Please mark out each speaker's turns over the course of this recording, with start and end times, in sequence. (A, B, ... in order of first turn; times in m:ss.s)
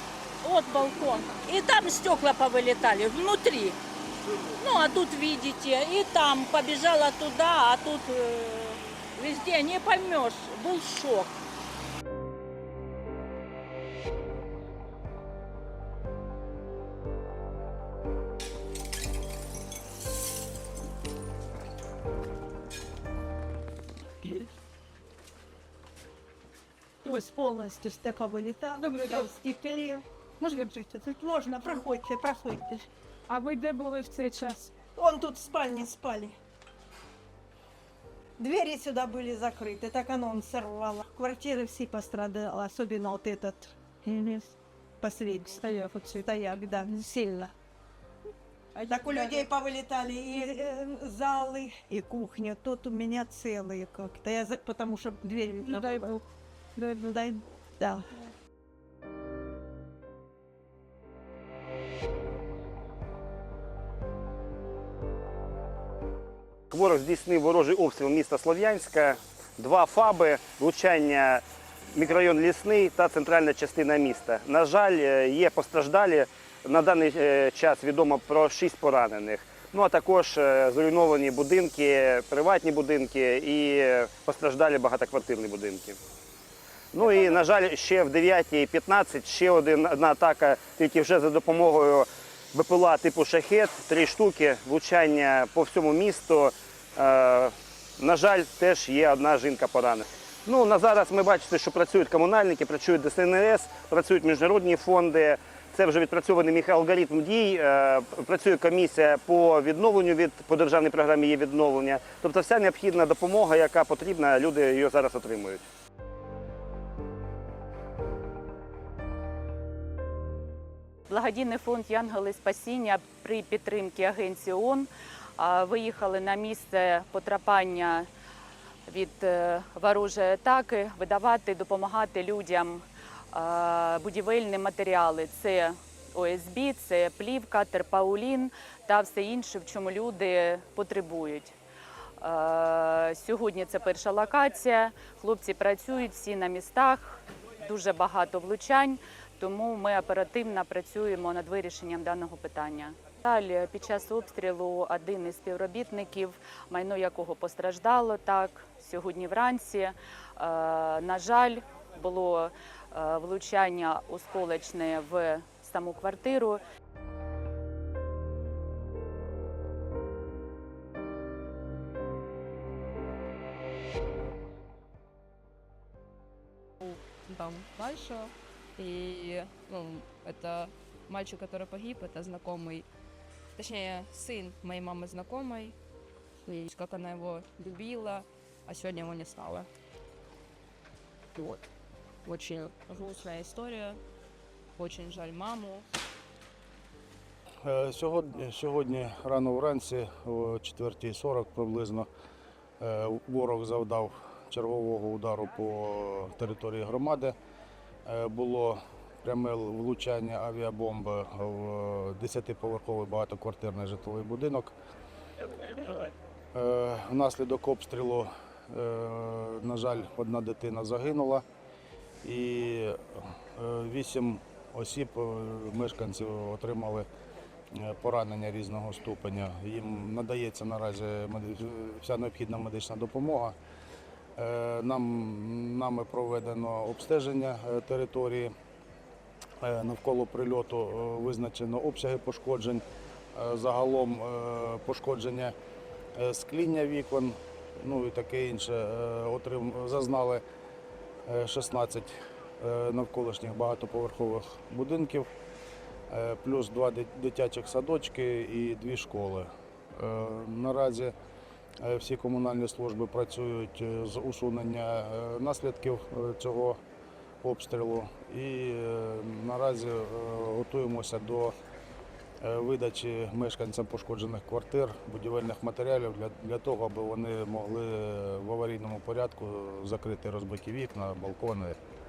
0:00.4-0:03.8 A
0:04.5-0:11.4 A
0:27.0-0:32.9 B
0:33.3-0:34.7 C
0:34.1-0:36.4 B
0:38.4-0:47.5 B
0:45.6-0:46.0 C
0:48.8-0:56.2 B
0:55.8-0:56.0 C
0:56.8-0:58.1 B
1:06.7-1:26.0 D
1:26.9-1:55.6 D
2:01.1-2:08.1 E
2:08.9-2:21.6 E
2:22.2-2:46.6 E
2:56.8-3:02.9 F
3:03.5-3:05.8 F
3:06.4-3:09.7 F
3:11.4-3:11.6 F
3:12.2-3:14.0 F
3:14.8-3:15.8 F
3:17.6-3:22.1 G
3:22.8-3:27.4 G
3:28.0-3:34.7 G
3:36.5-3:41.4 G
3:42.2-3:47.0 G
3:47.7-3:53.6 G
3:54.4-3:58.5 G
3:59.6-4:05.5 G
4:06.1-4:10.4 G
4:11.2-4:15.3 G
4:16.1-4:21.1 G
4:21.8-4:26.8 G
4:27.4-4:31.5 G
4:32.4-4:41.8 G